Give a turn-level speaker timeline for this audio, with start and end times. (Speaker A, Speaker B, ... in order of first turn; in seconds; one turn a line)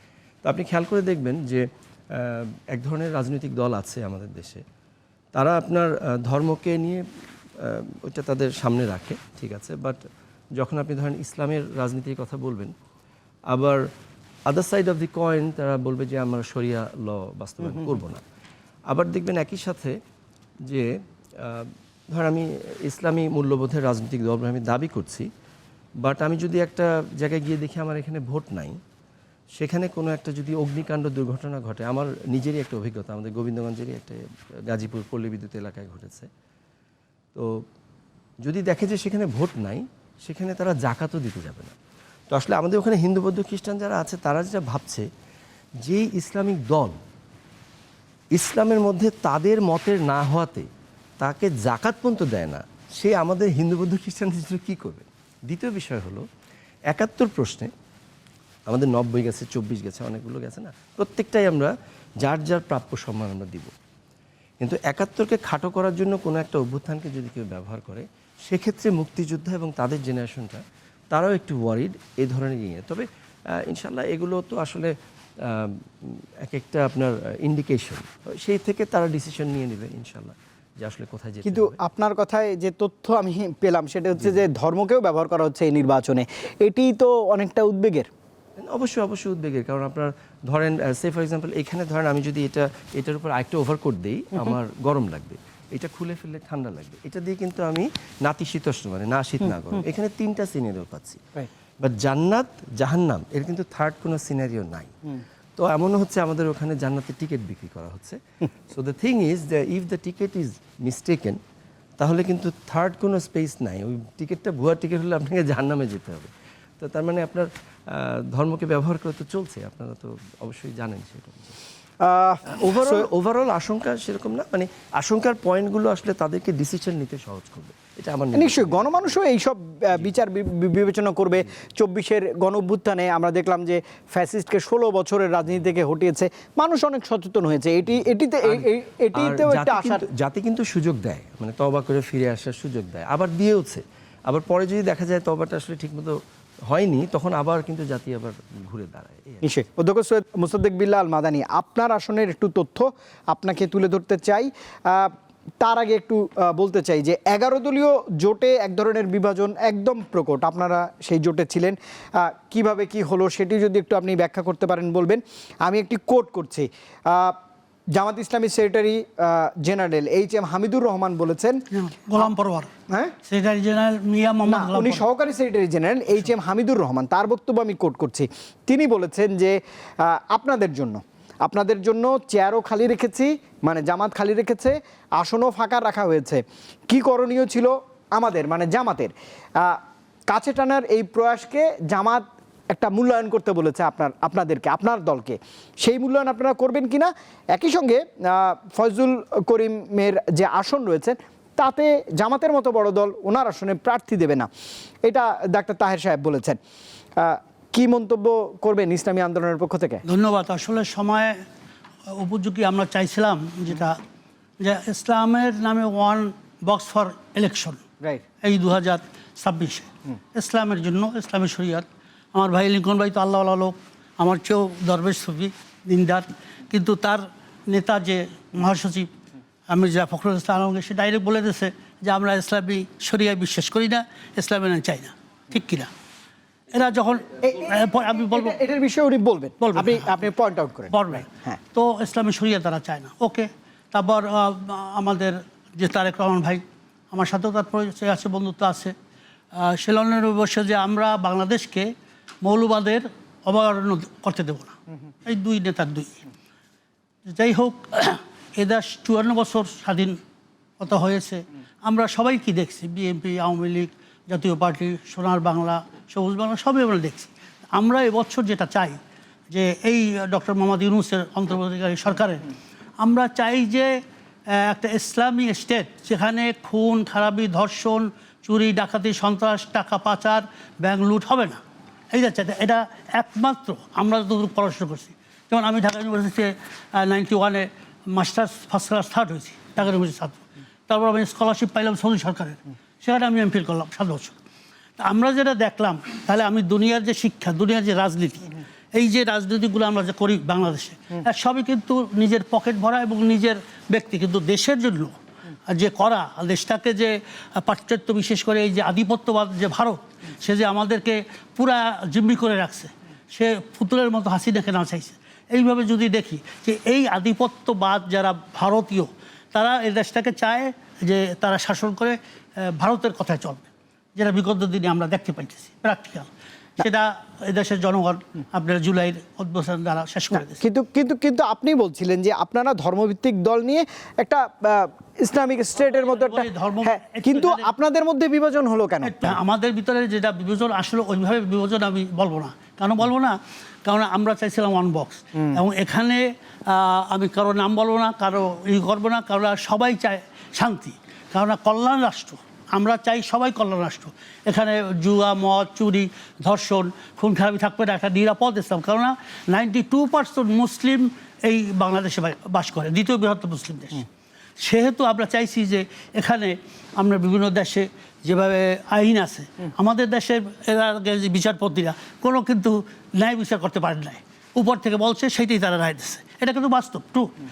Speaker A: 0.4-4.6
Speaker A: 5.3-7.0
Speaker A: 7.6-10.0
Speaker A: 10.6-12.7
Speaker A: 13.5-13.8
Speaker A: 14.5-18.2
Speaker A: 18.9-20.0
Speaker A: 21.4-25.3
Speaker A: 26.0-28.8
Speaker A: 29.6-36.3
Speaker A: 37.3-37.6
Speaker A: 38.4-41.8
Speaker A: 42.3-45.1
Speaker A: 45.8-47.0
Speaker A: 48.3-50.7
Speaker A: 51.2-56.2
Speaker A: 56.9-57.7
Speaker A: 58.7-63.7
Speaker A: 64.6-73.1
Speaker A: 73.6-74.9
Speaker A: 75.5-81.8
Speaker B: 81.4-88.1
Speaker A: 88.6-105.0
Speaker A: 105.6-111.4
Speaker A: 112.0-121.6
Speaker B: 122.0-123.1
Speaker A: 122.5-129.2
Speaker B: 128.3-140.0
Speaker A: 138.4-146.2
Speaker A: 146.7-149.4
Speaker B: 149.4-167.3
Speaker B: 168.0-171.6
Speaker C: 171.7-172.7
Speaker C: 173.2-175.0
Speaker B: 174.5-204.5
Speaker B: 205.1-206.6
Speaker B: 207.2-210.0
Speaker C: 210.1-211.4
Speaker C: 212.1-214.0
Speaker C: 214.6-217.8
Speaker C: 218.4-229.1
Speaker C: 229.7-235.9
Speaker C: 236.7-238.6
Speaker B: 237.4-241.6
Speaker C: 239.6-240.2
Speaker C: 240.9-248.9
Speaker C: 249.5-251.9
Speaker C: 252.4-256.3
Speaker C: 257.2-260.2
Speaker C: 260.8-269.0
Speaker C: 269.5-272.5
Speaker C: 273.0-274.0
Speaker C: 274.5-281.6
Speaker C: 282.1-294.4
Speaker C: 295.0-305.1
Speaker C: 305.7-330.6
Speaker B: 330.3-339.4
Speaker C: 335.8-337.7
Speaker C: 339.0-364.1
Speaker C: 364.6-377.4